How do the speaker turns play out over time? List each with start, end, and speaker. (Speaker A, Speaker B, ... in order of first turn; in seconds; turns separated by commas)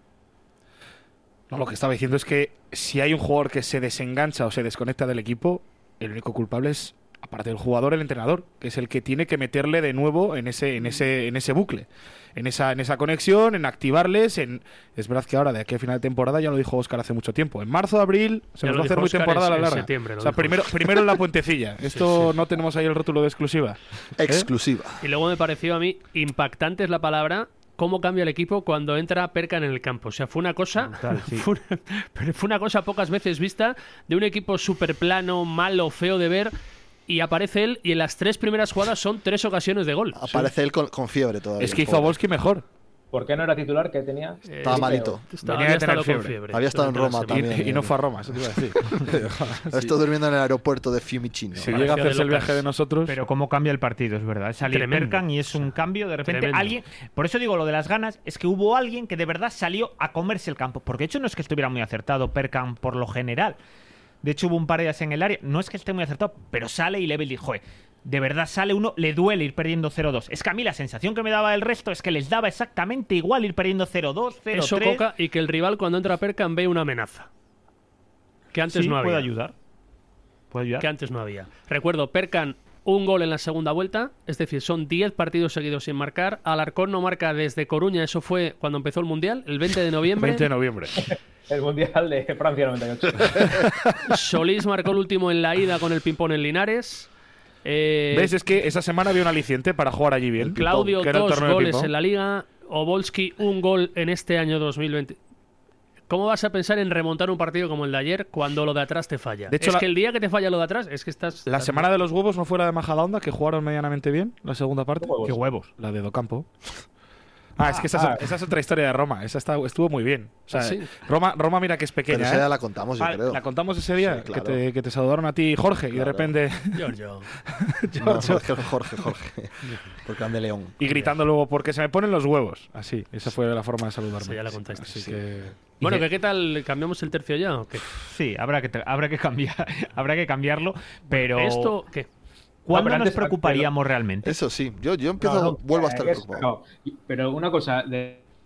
Speaker A: 1.5-24.5, Speaker B: 18.6-21.1, Speaker B: 21.9-22.3, Speaker C: 24.2-25.0, Speaker B: 25.0-36.5, Speaker D: 30.9-31.4, Speaker B: 37.1-40.5, Speaker C: 40.1-42.1, Speaker A: 41.6-42.6, Speaker E: 43.1-45.2, Speaker B: 44.5-47.5, Speaker C: 44.6-45.2, Speaker A: 45.4-46.4, Speaker C: 46.5-48.1, Speaker A: 47.3-49.9, Speaker C: 49.0-51.9, Speaker A: 51.5-53.1, Speaker B: 51.7-52.6, Speaker D: 53.1-63.6, Speaker B: 54.7-55.6, Speaker B: 56.2-56.8, Speaker D: 64.2-75.0, Speaker B: 74.5-77.3, Speaker B: 78.5-79.3, Speaker D: 78.7-79.5, Speaker D: 80.5-80.9, Speaker B: 80.8-90.5, Speaker A: 90.2-91.0, Speaker E: 91.5-93.7, Speaker B: 94.1-97.1, Speaker B: 97.6-98.3, Speaker A: 98.1-101.9, Speaker B: 100.4-105.2, Speaker B: 106.1-111.9, Speaker A: 109.5-109.8, Speaker A: 111.5-115.2, Speaker E: 115.0-115.4, Speaker D: 115.2-115.7, Speaker A: 115.8-116.5, Speaker A: 117.5-122.5, Speaker E: 117.9-118.2, Speaker B: 120.5-120.9, Speaker C: 122.1-123.4, Speaker A: 123.0-126.9, Speaker C: 124.0-124.6, Speaker C: 125.9-126.3, Speaker B: 126.7-127.3, Speaker A: 127.5-128.5, Speaker C: 128.0-130.8, Speaker A: 130.8-136.0, Speaker B: 134.2-135.2, Speaker B: 135.8-137.8, Speaker D: 138.0-141.7, Speaker B: 141.1-142.1, Speaker D: 142.7-144.4, Speaker E: 142.7-143.7, Speaker C: 144.2-146.5, Speaker E: 145.2-148.2